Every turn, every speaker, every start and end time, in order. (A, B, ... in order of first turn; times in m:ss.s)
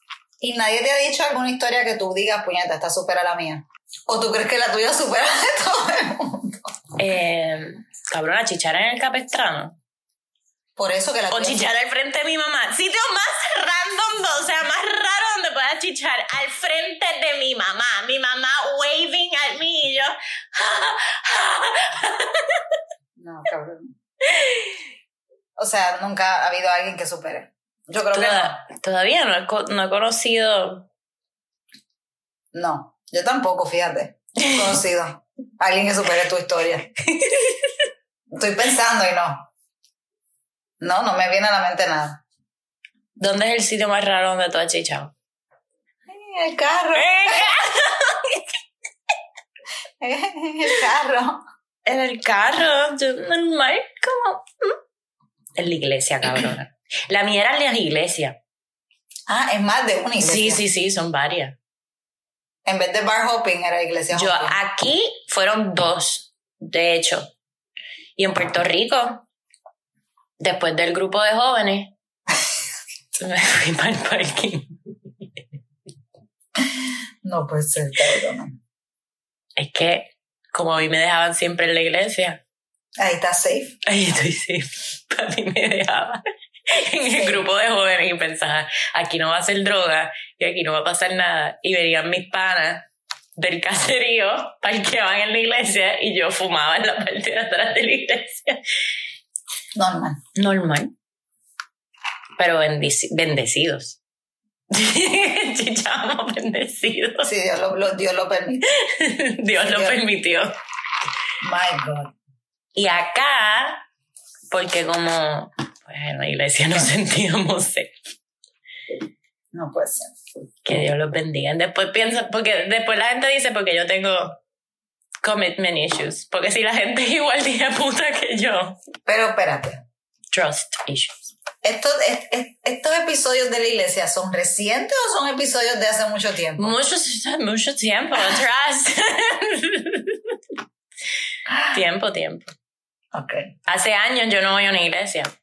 0:00.4-0:06.7 A
0:07.0-0:09.8 B
0:10.8-0:11.7 A
0:11.3-0:22.8 B
0:23.2-0:24.0 A
0:24.2-0:24.8 B
0:25.6-0:28.6 A
0:28.1-0:30.9 B
0:32.5-0:36.9 A
0:37.1-0:37.8 B
0:38.3-0:39.5 A
0:40.8-0:42.2 A
0:43.2-0:45.1 B
0:46.1-0:47.6 A
0:47.0-0:48.5 B
0:50.0-0:51.4 A
0:51.9-0:54.8 B
0:55.6-0:58.4 B
0:59.3-1:00.6 A
1:00.2-1:01.6 B
1:02.6-1:04.6 A
1:04.1-1:07.3 B
1:08.2-1:09.2 B
1:10.4-1:11.9 B
1:13.2-1:14.7 B
1:16.6-1:18.6 A
1:19.6-1:22.4 B
1:23.0-1:23.8 A
1:23.8-1:38.6 B
1:27.2-1:27.4 A
1:39.8-1:40.2 A
1:40.4-1:40.9 B
1:42.4-1:44.0 B
1:44.7-1:47.3 B
1:47.2-1:48.7 A
1:48.7-1:50.5 B
1:49.6-1:50.0 A
1:51.4-1:52.1 A
1:52.8-1:53.8 B
1:54.5-1:57.9 B
1:59.5-2:00.1 A
2:00.6-2:04.4 B
2:05.2-2:08.8 B
2:09.1-2:09.8 A
2:10.3-2:11.3 B
2:11.6-2:16.8 A
2:16.6-2:20.4 B
2:21.6-2:22.5 B
2:23.1-2:23.6 A
2:23.7-2:25.3 B